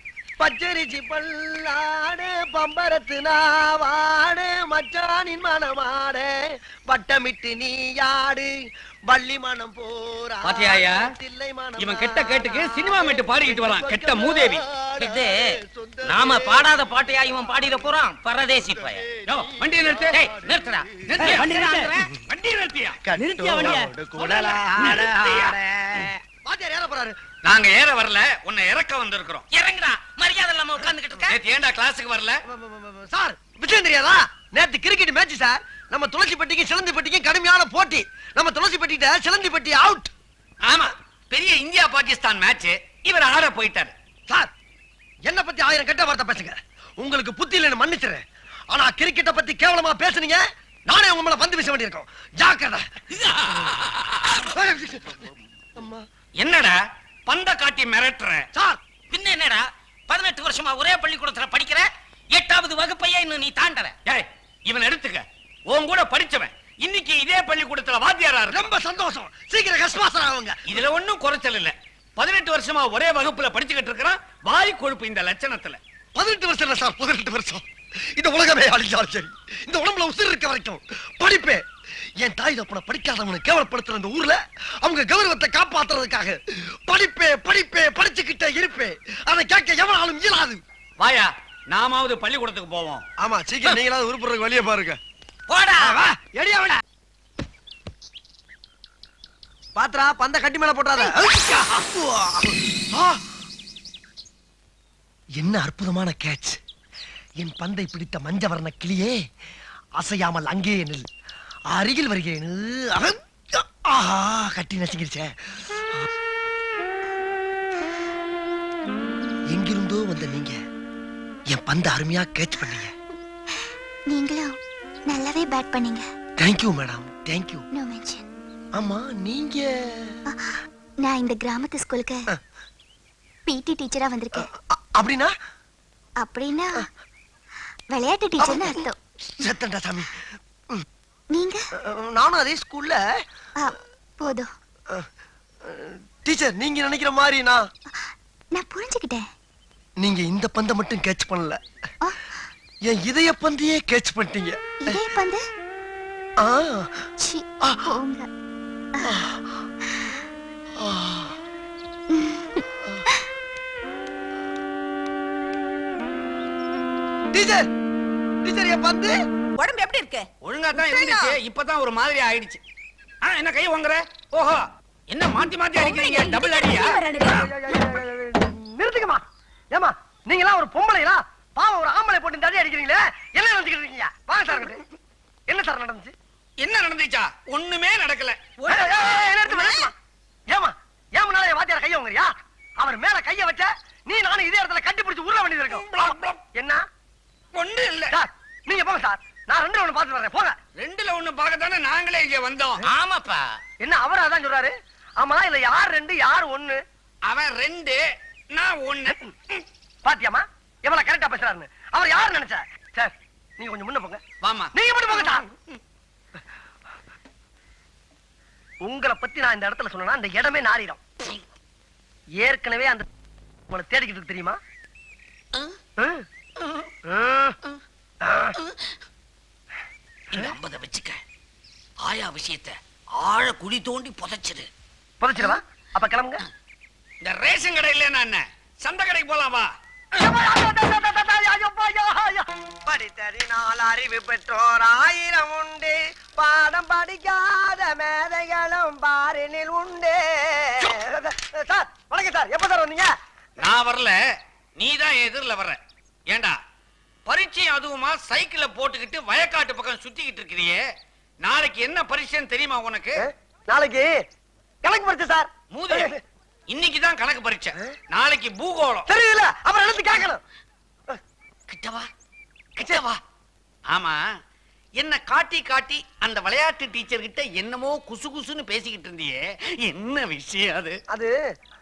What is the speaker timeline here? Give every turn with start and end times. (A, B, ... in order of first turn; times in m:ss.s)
0:00.4-0:06.3 A
0:06.9-0:08.5 A
0:09.1-0:16.7 A
0:10.4-0:11.0 B
0:11.8-0:14.6 B
0:15.0-0:15.5 C
0:16.0-0:19.0 C
0:19.2-0:20.2 B
0:20.1-0:22.0 C
0:21.0-0:23.0 B
0:23.2-0:23.7 A
0:23.4-0:26.1 C
0:23.6-0:25.6 B
0:26.4-0:27.2 A
0:27.4-0:29.4 B
0:29.5-0:31.4 C
0:31.2-0:32.4 B
0:32.5-0:40.1 A
0:40.6-0:43.9 B
0:45.2-0:52.8 A
0:53.2-0:54.4 B
0:54.4-0:55.2 A
0:56.4-0:58.5 B
0:58.5-0:58.8 A
0:59.1-1:03.9 C
1:04.0-1:08.7 B
1:08.5-1:10.6 A
1:10.7-1:15.8 B
1:16.1-1:17.6 A
1:18.2-1:21.6 A
1:22.2-1:30.6 A
1:31.0-1:33.0 B
1:33.2-1:35.0 A
1:35.5-1:35.8 C
1:35.8-1:36.8 A
1:39.7-1:43.2 A
1:45.4-1:46.6 A
1:47.4-1:49.2 A
1:50.0-1:51.0 A
1:51.7-1:55.3 A
1:59.5-2:00.6 A
2:01.5-2:02.9 A
2:04.1-2:04.5 D
2:05.1-2:06.0 D
2:06.4-2:07.6 A
2:07.7-2:08.2 D
2:08.8-2:10.2 A
2:10.3-2:12.2 D
2:13.4-2:14.5 D
2:14.4-2:15.3 A
2:16.2-2:16.8 D
2:17.9-2:19.0 D
2:18.4-2:18.8 A
2:19.4-2:20.1 A
2:21.3-2:21.6 D
2:21.8-2:23.0 A
2:23.6-2:24.5 D
2:25.7-2:27.6 A
2:27.9-2:29.2 D
2:30.0-2:31.6 A
2:32.9-2:35.0 A
2:34.8-2:35.4 D
2:36.4-2:36.9 A
2:37.2-2:38.3 D
2:39.1-2:39.4 A
2:40.8-2:41.3 A
2:42.1-2:42.6 D
2:47.3-2:47.6 A
2:48.4-2:49.1 A
2:49.6-2:51.4 E
2:50.4-2:52.6 B
2:53.2-2:57.4 B
2:55.8-2:57.4 E
2:57.2-3:04.8 A
3:05.5-3:06.1 A
3:06.6-3:08.6 B
3:08.7-3:09.9 A
3:10.5-3:15.8 A
3:15.7-3:16.4 B
3:16.5-3:16.8 A
3:17.5-3:18.1 B
3:18.1-3:20.6 A
3:20.8-3:22.8 B
3:22.8-3:23.6 C
3:23.8-3:26.8 A
3:27.2-3:28.0 B
3:28.5-3:29.6 B
3:30.0-3:34.2 A
3:34.4-3:34.7 B
3:34.7-3:35.4 A
3:38.8-3:41.0 A
3:42.4-3:43.0 A
3:43.7-3:44.6 A
3:46.0-3:46.2 A
3:47.1-3:47.6 A
3:48.2-3:48.5 A
3:50.3-3:51.2 B
3:52.0-3:54.7 B
3:55.2-3:56.4 A
3:57.2-3:59.7 B
4:00.2-4:13.1 A
4:13.6-4:14.1 B
4:14.8-4:16.6 B
4:17.3-4:20.8 B
4:21.4-4:23.2 B
4:23.2-4:24.1 A
4:24.8-4:26.2 A
4:25.7-4:26.1 B
4:26.7-4:29.1 B
4:29.1-4:30.4 A
4:31.7-4:32.1 B
4:32.8-4:33.2 A
4:33.9-4:34.2 B
4:35.0-4:41.0 B